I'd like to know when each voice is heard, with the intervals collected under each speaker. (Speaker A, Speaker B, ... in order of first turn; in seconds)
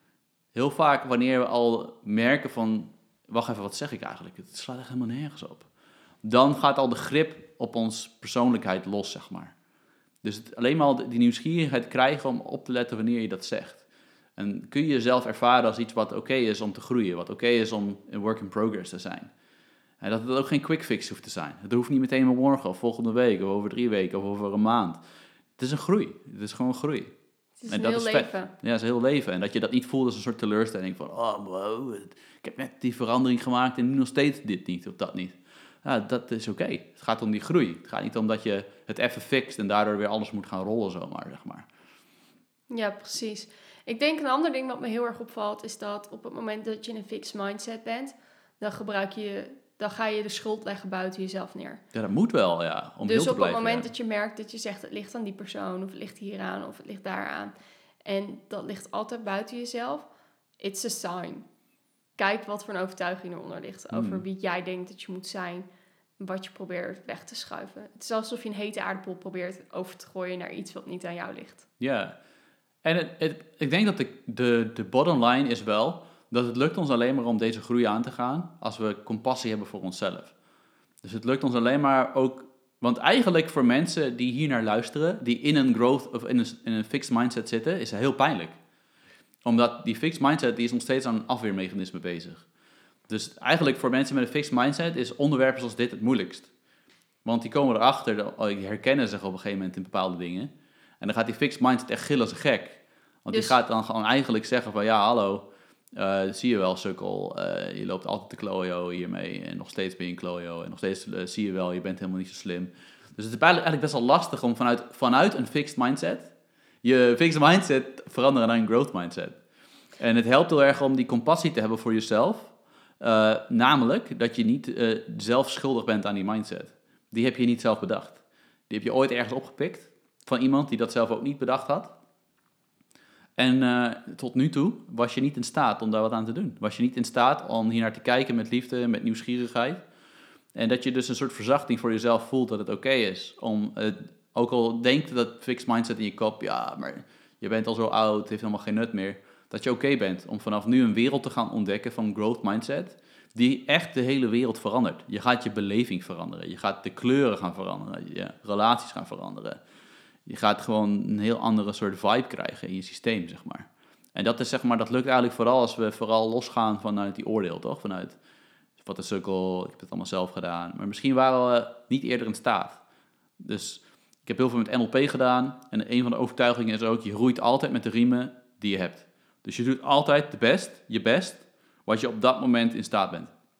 Speaker A: 0.5-5.7, 6.2-9.5, 10.2-13.8, 14.4-19.3, 20.0-25.0, 25.6-27.1, 27.7-41.7, 51.9-53.9, 63.9-64.2, 71.8-72.2, 72.8-80.3, 81.0-88.6, 89.5-92.5, 93.1-96.5, 97.2-116.3, 116.8-119.4, 120.0-131.9, 133.4-139.8, 140.6-159.6, 160.3-168.2, 168.8-172.8, 173.4-183.3
Speaker B: 27.6-28.5, 42.7-51.8, 53.1-57.5, 58.0-60.1, 60.6-61.5, 62.2-65.7, 66.2-71.7, 103.3-103.6